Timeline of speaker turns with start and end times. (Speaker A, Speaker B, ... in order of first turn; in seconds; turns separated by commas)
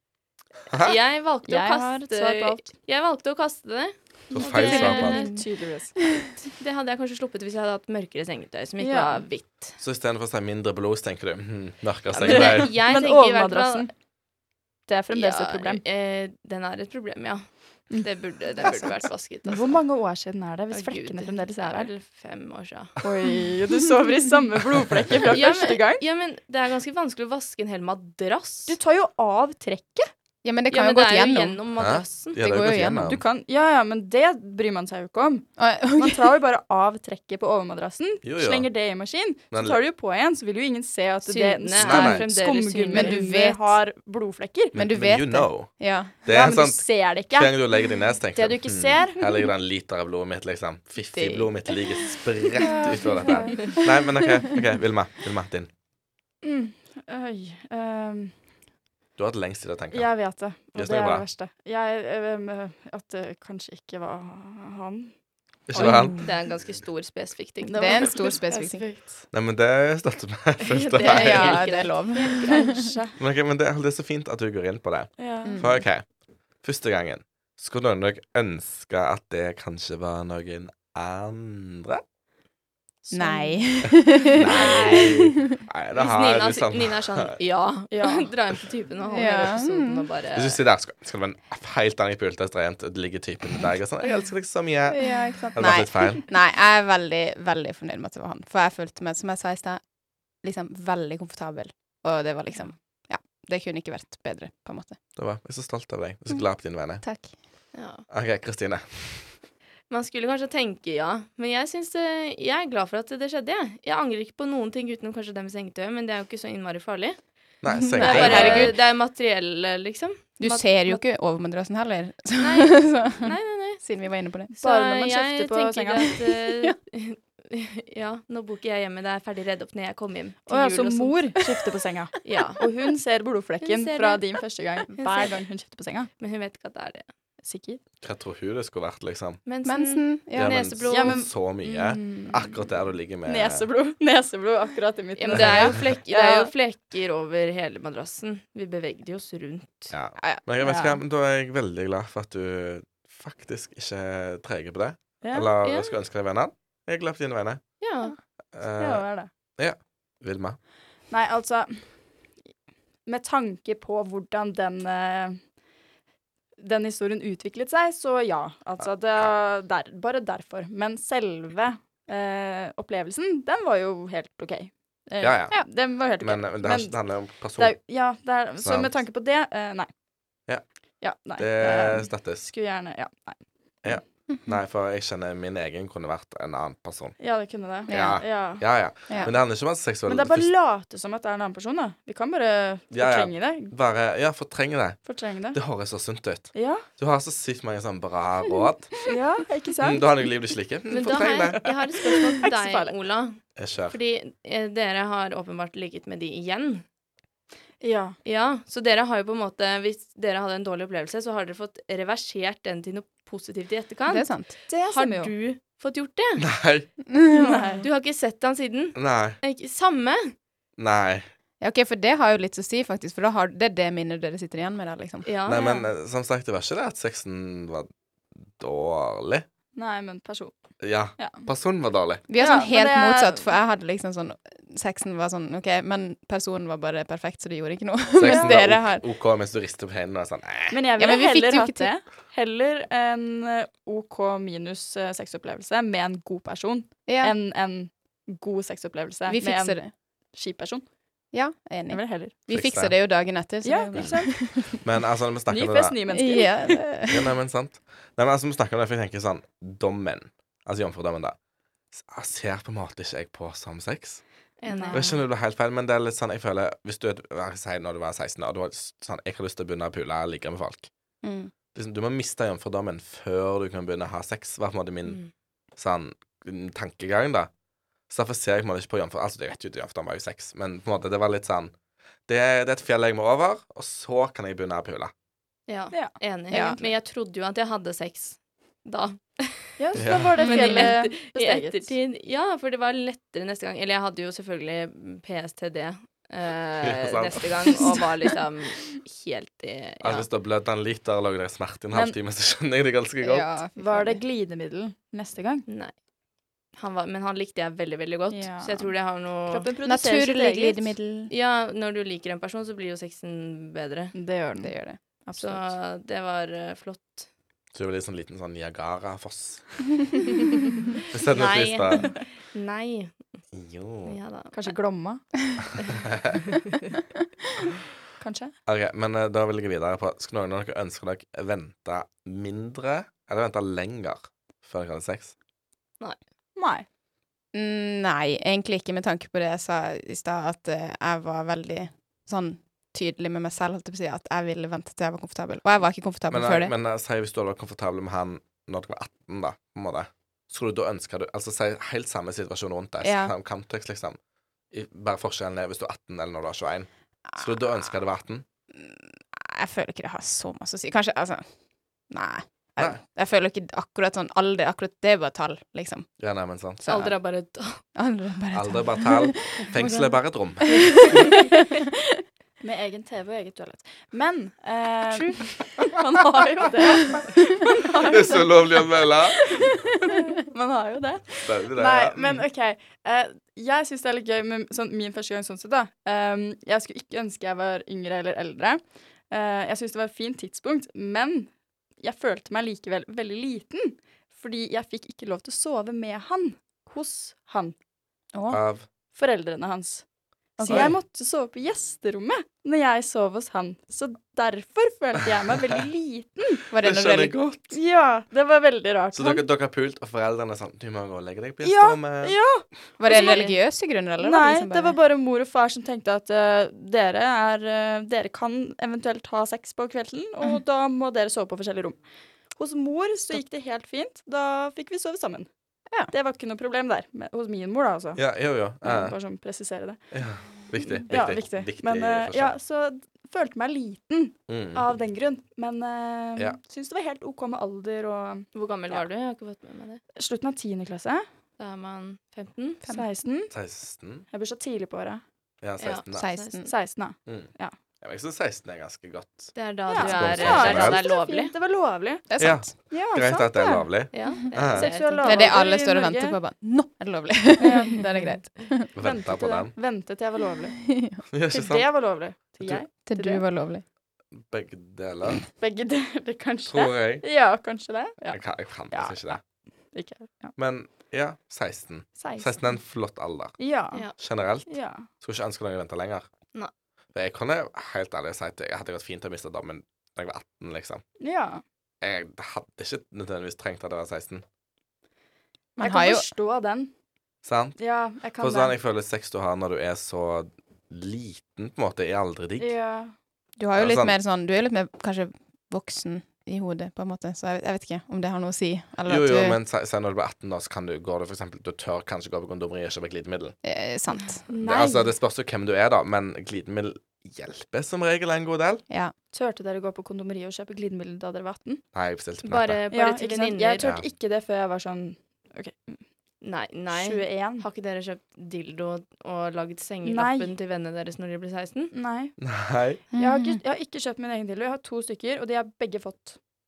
Speaker A: 0.7-1.0, Speaker B: 0.8-5.4, Speaker C: 1.4-2.7, Speaker A: 4.3-5.2, Speaker C: 4.4-6.0, Speaker D: 5.1-5.4, Speaker B: 6.4-9.8, Speaker C: 8.8-9.2, Speaker A: 9.8-12.7, Speaker B: 12.1-13.9, Speaker C: 12.3-13.9, Speaker C: 14.9-15.8, Speaker B: 15.1-19.8, Speaker C: 18.6-18.9, Speaker C: 19.4-21.9, Speaker B: 20.7-23.0, Speaker C: 23.0-26.0, Speaker B: 25.2-28.8, Speaker C: 28.7-30.1, Speaker D: 30.4-31.6, Speaker B: 30.7-32.5, Speaker A: 31.8-33.2, Speaker D: 32.4-33.1, Speaker C: 33.0-44.7, Speaker D: 35.6-36.3, Speaker A: 38.2-38.7, Speaker A: 39.5-39.8, Speaker B: 41.2-43.2, Speaker A: 41.8-42.2, Speaker D: 42.9-43.8, Speaker A: 44.7-45.7, Speaker D: 44.7-46.1, Speaker A: 46.2-55.7, Speaker C: 46.3-47.6, Speaker C: 48.3-49.2, Speaker B: 51.1-52.0, Speaker C: 52.6-53.7, Speaker D: 53.1-53.8, Speaker C: 56.4-58.3, Speaker A: 59.2-60.1, Speaker C: 59.9-65.1, Speaker A: 60.7-61.2, Speaker A: 65.7-66.2, Speaker C: 65.8-66.2, Speaker D: 65.8-66.2, Speaker B: 65.8-68.4, Speaker C: 67.6-69.2, Speaker D: 67.7-68.8, Speaker A: 69.3-71.8, Speaker B: 70.6-72.8, Speaker D: 71.0-72.8, Speaker C: 72.3-73.2, Speaker A: 73.2-76.1, Speaker C: 75.2-75.6, Speaker D: 75.4-75.9, Speaker A: 76.6-82.0, Speaker C: 83.0-85.0, Speaker D: 83.1-85.6, Speaker A: 84.3-87.3, Speaker B: 85.9-90.6, Speaker C: 87.9-88.3, Speaker D: 89.1-90.1, Speaker A: 90.3-96.2, Speaker D: 94.9-99.8, Speaker D: 100.4-105.0, Speaker A: 105.2-107.0, Speaker D: 107.0-107.3, Speaker B: 107.7-108.0, Speaker A: 108.1-109.3, Speaker B: 109.9-117.2, Speaker A: 117.6-118.7, Speaker D: 117.8-118.7, Speaker B: 118.0-121.0, Speaker D: 120.4-124.5, Speaker B: 122.4-123.8, Speaker B: 124.5-131.6, Speaker C: 124.5-126.2, Speaker D: 126.5-126.8, Speaker C: 130.5-136.1, Speaker B: 132.2-132.6, Speaker B: 133.6-134.4, Speaker B: 134.9-135.3, Speaker B: 136.2-137.1, Speaker C: 137.4-137.8, Speaker A: 138.0-139.4, Speaker B: 139.4-141.2, Speaker D: 139.6-140.6, Speaker A: 140.3-143.6, Speaker C: 140.9-142.5, Speaker C: 143.2-146.5, Speaker B: 145.2-149.9, Speaker A: 145.3-145.8, Speaker A: 149.9-157.6, Speaker C: 150.6-151.0, Speaker C: 155.2-155.5, Speaker B: 155.6-155.9, Speaker B: 157.8-158.1, Speaker A: 158.5-159.0, Speaker C: 158.8-159.3, Speaker A: 159.6-160.6, Speaker C: 161.1-161.9, Speaker C: 163.1-165.4, Speaker C: 166.6-177.0, Speaker A: 175.2-177.8, Speaker C: 177.5-179.9, Speaker A: 178.6-178.9, Speaker C: 181.0-183.4, Speaker A: 181.3-182.4, Speaker A: 183.8-187.2, Speaker C: 187.2-189.4, Speaker D: 187.9-188.2, Speaker A: 187.9-190.5, Speaker D: 189.1-189.3, Speaker C: 190.1-193.7, Speaker A: 192.9-199.1, Speaker C: 195.0-195.6, Speaker C: 196.5-196.8, Speaker C: 199.1-200.0, Speaker A: 199.8-201.8, Speaker B: 200.9-206.8, Speaker C: 202.4-202.9, Speaker A: 203.6-203.9, Speaker C: 207.8-208.2, Speaker B: 208.2-216.4, Speaker D: 214.1-214.6, Speaker C: 214.7-215.3, Speaker A: 216.4-216.9, Speaker D: 217.1-217.7, Speaker C: 217.3-217.8, Speaker B: 217.8-220.3, Speaker A: 218.9-219.4, Speaker A: 220.8-221.3, Speaker D: 221.6-225.3, Speaker B: 225.2-225.8, Speaker A: 225.4-227.9, Speaker A: 228.6-229.4, Speaker C: 229.7-230.6, Speaker A: 230.8-232.2, Speaker C: 231.2-231.4, Speaker D: 232.3-239.0, Speaker C: 232.4-233.5, Speaker A: 238.1-240.8, Speaker C: 238.2-238.6, Speaker C: 240.7-249.8, Speaker D: 241.0-241.9, Speaker D: 247.1-247.3, Speaker D: 249.3-249.9, Speaker C: 250.3-250.8, Speaker D: 251.3-254.7, Speaker C: 251.9-252.3, Speaker A: 252.5-252.9, Speaker C: 253.6-254.8, Speaker A: 254.6-255.9, Speaker C: 255.5-257.1, Speaker D: 256.1-257.3, Speaker A: 257.1-261.4, Speaker A: 261.9-264.2, Speaker B: 264.6-265.2, Speaker C: 264.7-265.1, Speaker A: 264.9-270.9, Speaker D: 271.2-271.5, Speaker A: 271.7-275.2, Speaker B: 275.0-275.3, Speaker A: 275.8-277.5, Speaker A: 278.1-281.7, Speaker A: 282.3-285.1, Speaker B: 285.7-289.8, Speaker C: 285.9-286.8, Speaker D: 286.5-286.8, Speaker C: 289.8-291.9, Speaker A: 290.0-290.3, Speaker D: 290.4-290.9, Speaker B: 290.4-300.3, Speaker A: 296.8-297.9, Speaker A: 300.0-303.5, Speaker C: 301.9-302.2, Speaker D: 303.2-304.2, Speaker C: 303.8-305.6, Speaker B: 305.7-305.9, Speaker B: 306.7-309.7, Speaker C: 308.3-308.9, Speaker C: 309.5-310.9, Speaker D: 309.8-311.3, Speaker B: 311.3-314.1, Speaker C: 314.1-315.7, Speaker D: 314.6-315.0, Speaker B: 315.4-317.2, Speaker A: 317.7-320.0, Speaker A: 321.1-322.2, Speaker B: 321.3-323.3, Speaker A: 323.5-324.1, Speaker B: 324.0-324.7, Speaker C: 324.5-325.2, Speaker C: 328.2-328.5, Speaker A: 328.7-335.3, Speaker C: 336.6-336.9, Speaker D: 337.5-346.7, Speaker A: 346.3-354.2, Speaker D: 353.0-353.3, Speaker A: 354.7-358.4, Speaker D: 358.7-361.4, Speaker D: 362.1-366.1, Speaker A: 366.2-367.1, Speaker D: 366.8-367.1, Speaker B: 366.9-367.8, Speaker D: 367.9-370.1, Speaker A: 368.5-371.3, Speaker D: 370.7-371.8, Speaker C: 372.6-378.8, Speaker B: 375.1-375.6, Speaker A: 378.0-379.7, Speaker C: 379.6-397.8, Speaker A: 381.4-382.4, Speaker D: 398.3-398.6, Speaker A: 398.5-398.9, Speaker C: 399.1-400.0, Speaker C: 400.6-406.6, Speaker D: 400.6-400.9, Speaker A: 400.7-400.9, Speaker D: 406.7-407.4, Speaker A: 406.7-407.6, Speaker C: 407.7-409.4, Speaker A: 409.1-412.4, Speaker C: 411.6-413.4, Speaker D: 413.0-414.9, Speaker B: 413.1-413.6, Speaker C: 414.2-422.0, Speaker C: 422.6-425.5, Speaker C: 426.1-428.2, Speaker A: 428.1-429.1, Speaker C: 428.8-430.0, Speaker A: 430.1-432.6, Speaker C: 431.1-439.0, Speaker A: 434.5-434.8, Speaker B: 438.5-440.0, Speaker C: 440.1-441.2, Speaker B: 441.6-442.8, Speaker C: 442.9-443.5, Speaker A: 443.5-444.2, Speaker C: 444.3-445.2, Speaker A: 445.6-446.4, Speaker B: 445.8-446.6, Speaker D: 446.1-446.7, Speaker C: 446.6-447.7, Speaker A: 447.2-451.0, Speaker B: 449.5-451.5, Speaker C: 449.9-453.8, Speaker D: 452.3-452.7, Speaker A: 452.4-454.9, Speaker B: 454.1-455.6, Speaker C: 454.5-456.4, Speaker D: 455.2-458.9, Speaker C: 457.6-463.4, Speaker A: 458.9-459.7, Speaker D: 460.9-461.2, Speaker A: 461.3-462.8, Speaker D: 463.1-463.8, Speaker A: 464.3-465.4, Speaker C: 465.6-469.4, Speaker A: 466.7-467.2, Speaker A: 468.3-469.4, Speaker C: 469.9-470.5, Speaker A: 470.6-473.6, Speaker C: 472.2-472.8, Speaker C: 473.6-474.1, Speaker A: 474.2-476.3, Speaker C: 474.6-475.1, Speaker A: 477.1-481.0, Speaker C: 481.2-481.6, Speaker A: 482.0-484.4, Speaker D: 485.8-486.3, Speaker C: 485.8-486.9, Speaker A: 487.4-487.8, Speaker C: 487.8-488.7, Speaker A: 488.3-492.7, Speaker C: 492.6-493.1, Speaker D: 493.6-499.6, Speaker A: 493.8-494.1, Speaker A: 499.1-503.6, Speaker D: 503.6-504.4, Speaker C: 504.5-505.1, Speaker A: 504.6-508.8, Speaker C: 509.3-511.8, Speaker A: 511.9-512.8, Speaker B: 512.4-513.9, Speaker C: 512.9-516.0, Speaker A: 513.8-514.0, Speaker B: 516.4-521.9, Speaker C: 516.9-517.6, Speaker C: 520.0-520.5, Speaker C: 521.9-522.3, Speaker A: 522.4-523.0, Speaker D: 523.1-523.6, Speaker C: 523.1-526.4